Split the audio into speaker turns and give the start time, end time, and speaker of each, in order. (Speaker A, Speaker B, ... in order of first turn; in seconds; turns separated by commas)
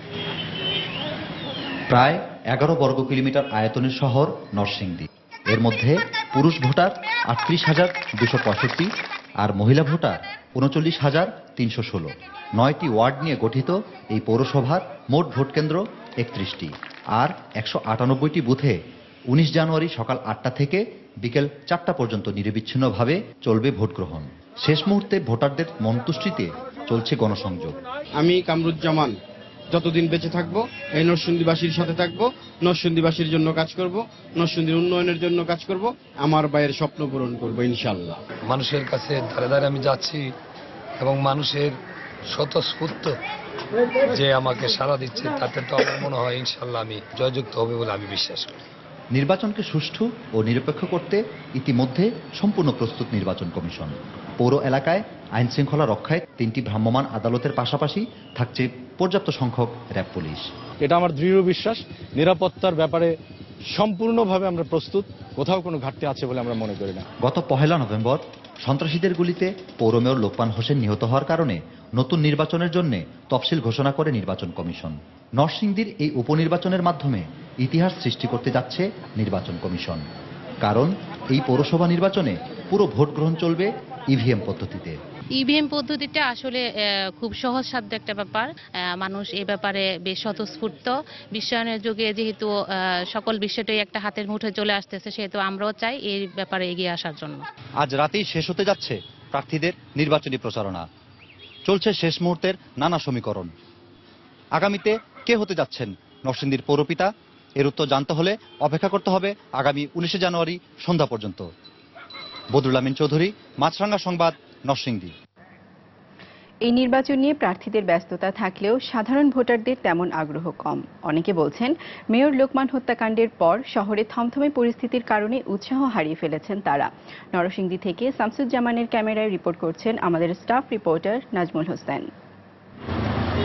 Speaker A: 1.9-8.9, Speaker A: 9.4-18.8, Speaker A: 19.3-27.8, Speaker B: 28.2-29.2, Speaker B: 29.7-38.2, Speaker C: 38.5-40.2, Speaker C: 41.1-41.7, Speaker C: 42.4-43.1, Speaker C: 44.3-48.5, Speaker A: 49.1-60.5, Speaker D: 60.9-61.8, Speaker D: 62.4-62.9, Speaker D: 63.8-67.0, Speaker A: 67.2-80.0, Speaker A: 80.6-85.0, Speaker E: 85.4-86.6, Speaker E: 87.2-92.5, Speaker E: 93.1-97.4, Speaker A: 97.8-100.8, Speaker A: 101.7-103.5, Speaker A: 104.5-111.5, Speaker A: 112.5-115.1, Speaker F: 116.6-132.1